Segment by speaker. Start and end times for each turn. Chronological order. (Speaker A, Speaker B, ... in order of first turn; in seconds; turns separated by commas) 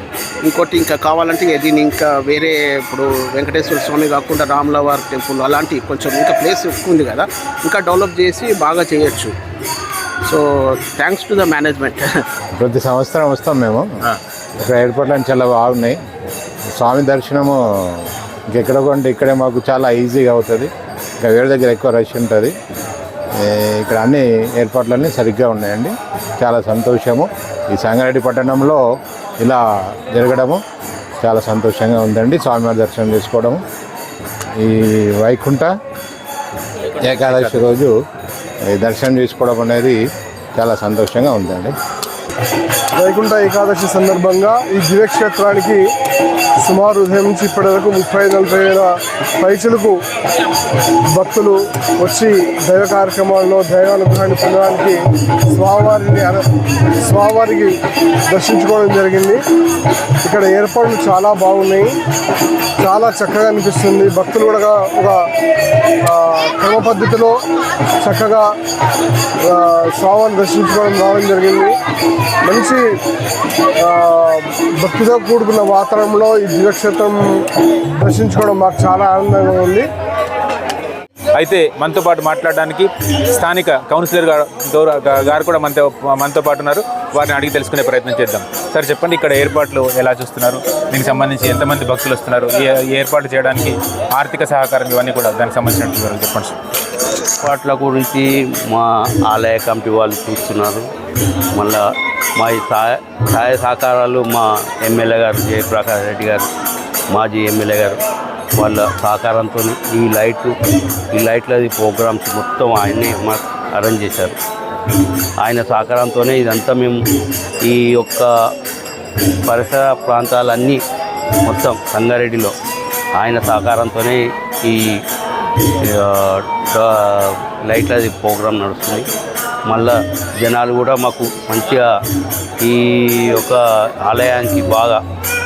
Speaker A: 0.4-9.3, Speaker A: 10.2-12.2, Speaker B: 12.6-13.9, Speaker B: 14.6-16.0, Speaker B: 16.8-20.7, Speaker B: 21.2-22.5, Speaker B: 23.4-28.8, Speaker B: 29.4-30.6, Speaker B: 31.2-33.6, Speaker B: 34.6-35.7, Speaker C: 37.0-37.7, Speaker B: 37.0-37.9, Speaker B: 38.7-40.0, Speaker B: 40.5-41.7, Speaker D: 43.0-45.8, Speaker D: 46.6-50.0, Speaker D: 51.1-55.0, Speaker D: 55.5-56.4, Speaker D: 57.0-57.7, Speaker D: 58.3-59.4, Speaker D: 60.2-61.9, Speaker D: 62.8-65.2, Speaker D: 66.0-67.4, Speaker D: 68.0-68.5, Speaker D: 69.4-71.7, Speaker D: 72.4-72.8, Speaker D: 73.8-77.2, Speaker D: 78.0-79.9, Speaker C: 81.3-96.5, Speaker E: 97.4-100.9, Speaker E: 101.5-101.8, Speaker E: 102.4-106.5, Speaker E: 107.1-108.0, Speaker E: 108.6-110.5, Speaker E: 111.1-114.3, Speaker E: 115.4-117.0, Speaker E: 117.6-118.3, Speaker E: 119.5-120.8, Speaker E: 121.4-122.5, Speaker E: 123.2-125.0, Speaker E: 125.8-129.1, Speaker E: 129.7-131.9, Speaker E: 132.6-135.0